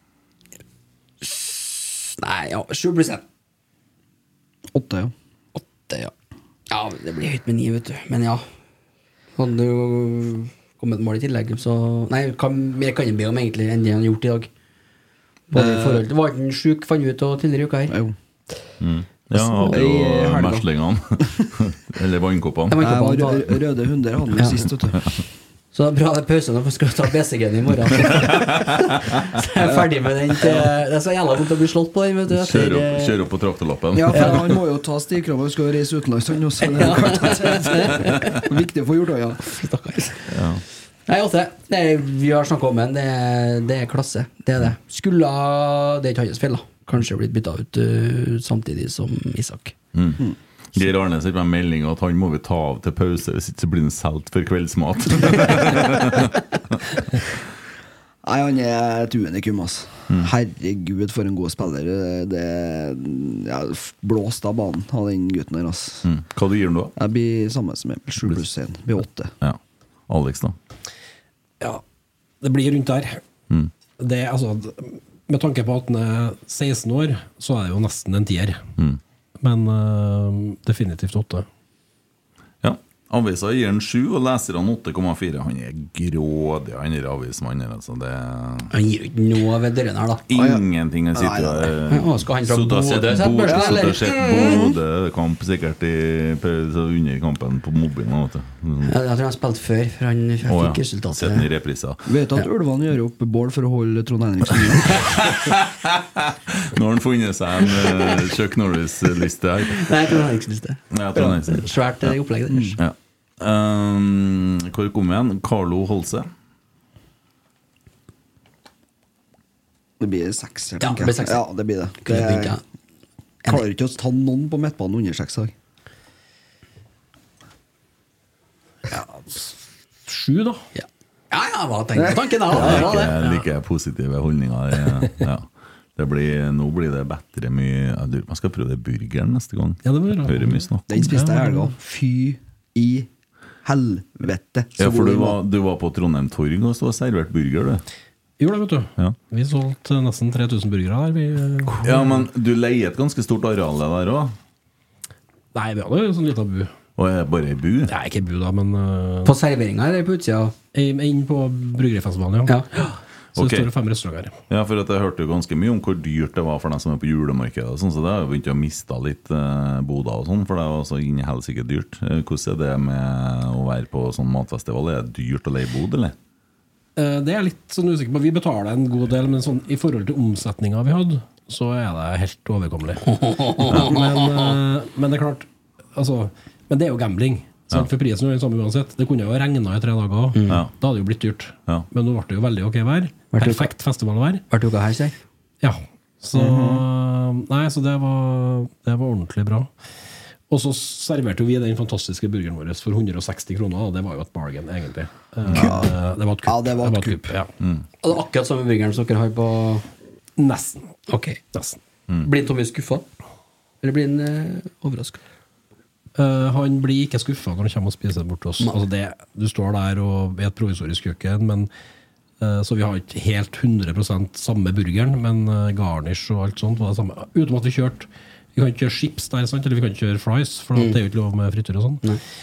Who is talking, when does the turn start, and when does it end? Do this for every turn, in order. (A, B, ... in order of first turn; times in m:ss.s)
0:01.2-0:03.2 A
0:04.7-0:05.1 B
0:05.6-0:06.1 A
0:06.7-0:08.4 A
0:09.4-0:14.5 A
0:15.5-0:18.0 A
0:15.6-0:16.0 B
0:17.9-0:18.1 B
0:18.8-0:22.8 C
0:19.4-0:19.8 A
0:19.6-0:20.6 B
0:22.7-0:23.5 A
0:22.8-0:25.1 B
0:25.7-0:33.2 A
0:28.1-0:29.1 C
0:32.3-0:34.5 C
0:33.9-0:39.4 B
0:34.1-0:34.5 A
0:36.6-0:38.5 A
0:39.4-0:40.3 A
0:40.3-0:40.6 C
0:41.1-0:49.7 A
0:49.9-0:50.2 C
0:50.7-0:56.8 C
0:58.2-1:06.1 B
1:06.0-1:06.9 C
1:07.0-1:09.3 B
1:09.4-1:10.6 C
1:12.4-1:13.2 D
1:14.0-1:18.6 D
1:19.4-1:21.4 D
1:22.6-1:28.7 C
1:28.7-1:30.3 A
1:30.3-1:39.0 C
1:30.3-1:31.7 B
1:31.9-1:34.6 A
1:33.5-1:34.0 B
1:38.8-1:41.5 A
1:40.4-1:42.1 C
1:42.0-1:45.1 B
1:45.0-1:50.2 C
1:49.7-1:52.8 A
1:50.9-1:52.1 C
1:52.5-1:52.8 B
1:52.8-1:56.3 C
2:00.0-2:02.6 B
2:00.8-2:01.4 A
2:02.0-2:02.6 A
2:03.4-2:05.5 B
2:10.0-2:10.6 D
2:10.7-2:13.2 A
2:12.0-2:12.8 B
2:12.5-2:21.0 C
2:13.2-2:13.4 D
2:19.8-2:21.7 D
2:20.9-2:23.1 B
2:23.6-2:25.4 B
2:24.8-2:27.8 C
2:28.4-2:32.2 D
2:31.8-2:34.3 C
2:35.5-2:36.7 D
2:37.0-2:37.9 C
2:37.9-2:39.3 D
2:39.3-2:40.6 A
2:40.7-2:44.3 D
2:43.4-2:43.7 C
2:44.5-2:56.1 C
2:57.0-3:14.4 D
3:03.1-3:04.5 A
3:10.3-3:10.6 A
3:13.3-3:13.7 A
3:14.5-3:15.2 A
3:15.6-3:19.7 D
3:16.3-3:16.8 B
3:20.5-3:27.5 D
3:25.5-3:25.7 C
3:25.5-3:27.3 B
3:28.0-3:29.8 A
3:30.4-3:30.9 D
3:31.1-3:31.4 A
3:32.2-3:33.0 A
3:33.8-3:35.2 A
3:36.2-3:41.7 D
3:42.4-3:52.0 D